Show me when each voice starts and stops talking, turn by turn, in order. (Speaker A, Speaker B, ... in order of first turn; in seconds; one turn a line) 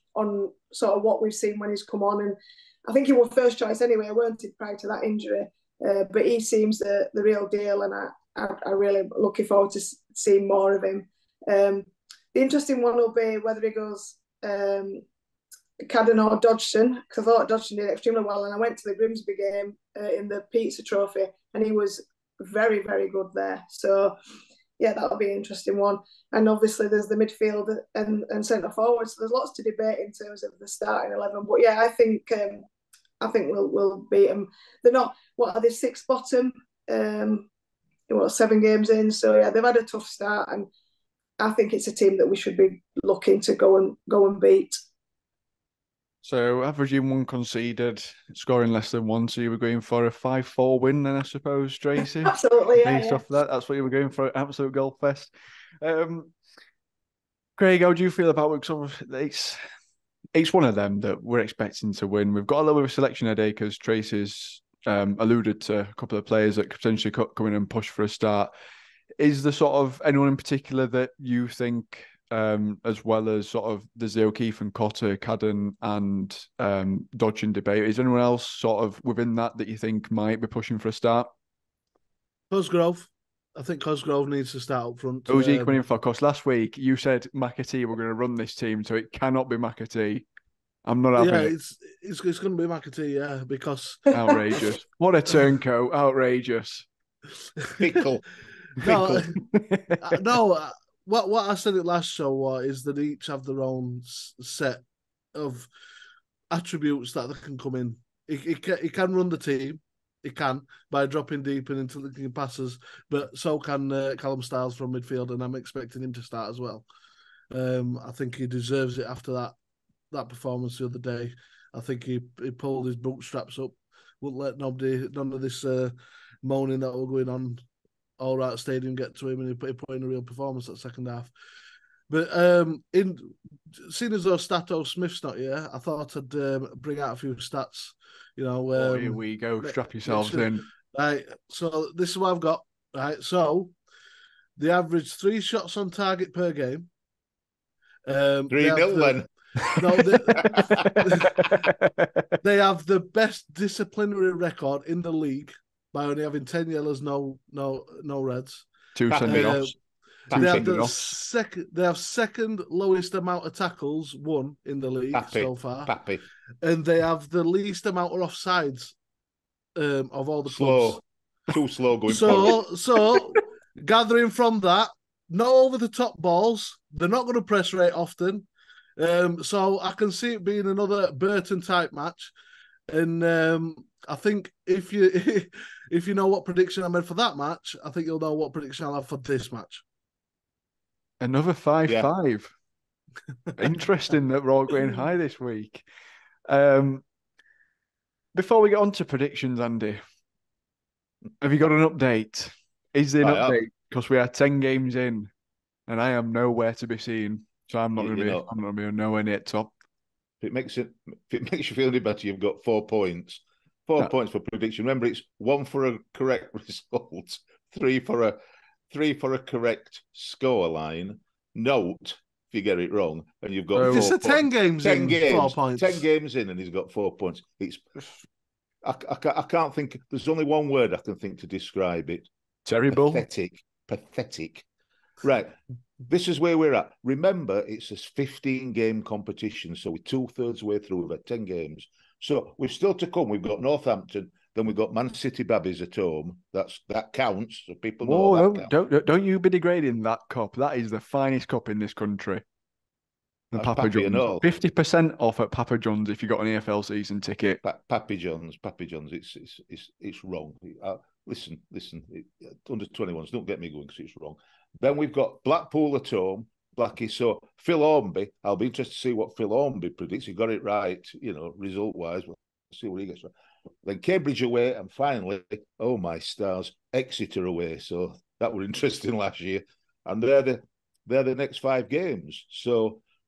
Speaker A: 0.1-15.0
Speaker A: 15.8-24.1
Speaker A: 24.8-32.6
Speaker A: 33.2-37.5
Speaker A: 38.1-40.7
Speaker A: 41.4-44.8
Speaker B: 46.2-56.3
Speaker A: 52.2-53.2
Speaker B: 57.6-59.6
Speaker B: 60.3-68.5
Speaker B: 69.2-81.3
Speaker C: 82.5-85.8
Speaker B: 85.3-90.2
Speaker B: 90.8-91.5
Speaker C: 91.2-94.0
Speaker B: 94.1-96.9
Speaker D: 97.8-98.2
Speaker C: 98.8-99.3
Speaker D: 98.8-99.3
Speaker B: 99.4-100.0
Speaker C: 100.0-104.8
Speaker C: 105.3-105.7
Speaker C: 106.5-116.9
Speaker C: 117.5-119.5
Speaker C: 120.1-127.6
Speaker C: 128.2-131.3
Speaker C: 132.1-143.8
Speaker B: 138.8-140.6
Speaker C: 144.6-146.9
Speaker C: 148.1-149.2
Speaker D: 148.5-149.3
Speaker C: 149.8-151.5
Speaker B: 150.3-152.2
Speaker C: 152.4-159.7
Speaker B: 158.9-159.7
Speaker D: 160.3-160.9
Speaker C: 160.3-165.9
Speaker B: 160.3-161.2
Speaker D: 165.1-166.2
Speaker C: 166.6-168.9
Speaker C: 169.8-171.0
Speaker D: 170.4-172.6
Speaker C: 172.1-178.5
Speaker C: 179.0-182.3
Speaker C: 182.9-189.8
Speaker B: 191.2-192.5
Speaker D: 191.9-192.1
Speaker B: 193.6-195.8
Speaker B: 196.5-197.0
Speaker B: 198.3-200.0
Speaker B: 201.4-205.3
Speaker D: 203.2-203.6
Speaker B: 205.9-209.7
Speaker D: 208.0-208.5
Speaker D: 210.4-218.4
Speaker D: 218.9-227.8
Speaker B: 223.7-224.1
Speaker C: 223.8-226.0
Speaker D: 228.8-232.3
Speaker B: 232.7-233.2
Speaker D: 232.9-234.7
Speaker D: 235.2-235.6
Speaker D: 236.1-248.7
Speaker B: 248.0-252.4
Speaker B: 253.5-257.6
Speaker D: 253.6-254.4
Speaker D: 257.6-273.3
Speaker D: 273.8-283.0